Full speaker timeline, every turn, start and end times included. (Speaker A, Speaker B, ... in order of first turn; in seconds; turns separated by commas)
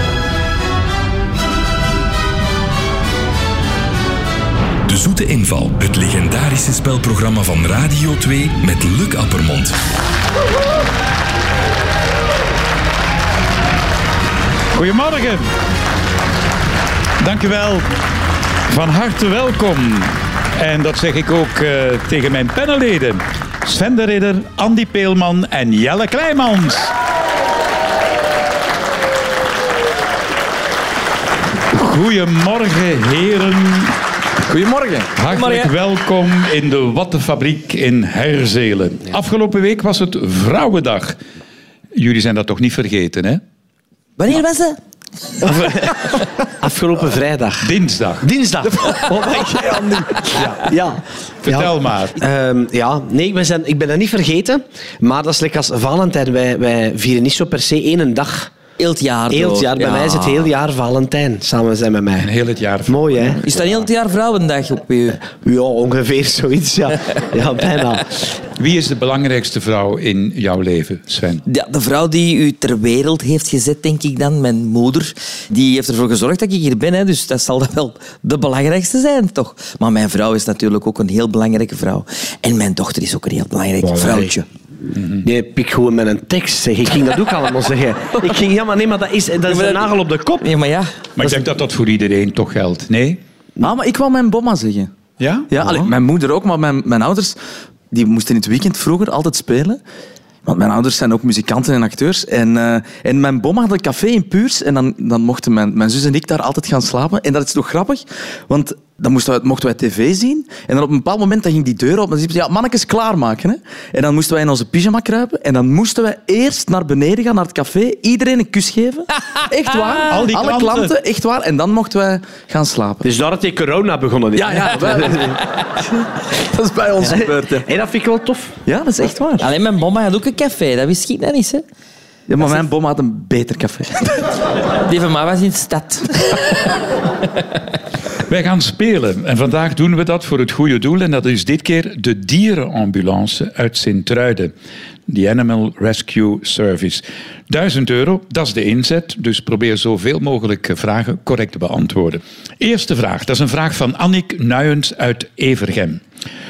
Speaker A: 4.8-9.8, Speaker B: 14.7-15.4, Speaker B: 17.2-17.9, Speaker B: 18.7-26.9, Speaker B: 31.7-34.0, Speaker C: 34.5-35.1, Speaker B: 35.2-41.2, Speaker D: 35.3-35.7, Speaker B: 41.9-43.4, Speaker D: 44.2-44.8, Speaker E: 45.4-58.5, Speaker B: 47.6-48.3, Speaker B: 50.3-50.7, Speaker B: 51.4-52.2, Speaker D: 58.8-60.5, Speaker E: 59.3-62.3, Speaker B: 62.2-63.9, Speaker E: 62.9-63.4, Speaker D: 63.5-65.2, Speaker E: 65.3-68.2, Speaker B: 68.6-71.4, Speaker D: 71.5-84.5, Speaker E: 83.8-84.3, Speaker B: 85.0-85.3, Speaker E: 85.2-90.5, Speaker D: 89.5-90.9, Speaker B: 91.2-93.2, Speaker C: 93.6-94.9, Speaker B: 95.2-95.9, Speaker C: 95.5-97.4, Speaker C: 97.9-99.8, Speaker C: 100.5-123.1, Speaker B: 120.1-120.9, Speaker E: 123.0-125.3, Speaker C: 124.3-127.7, Speaker E: 127.1-128.5, Speaker C: 128.7-129.5, Speaker D: 129.4-131.6, Speaker C: 132.3-134.2, Speaker D: 134.8-136.8, Speaker B: 138.3-144.5, Speaker B: 145.1-156.0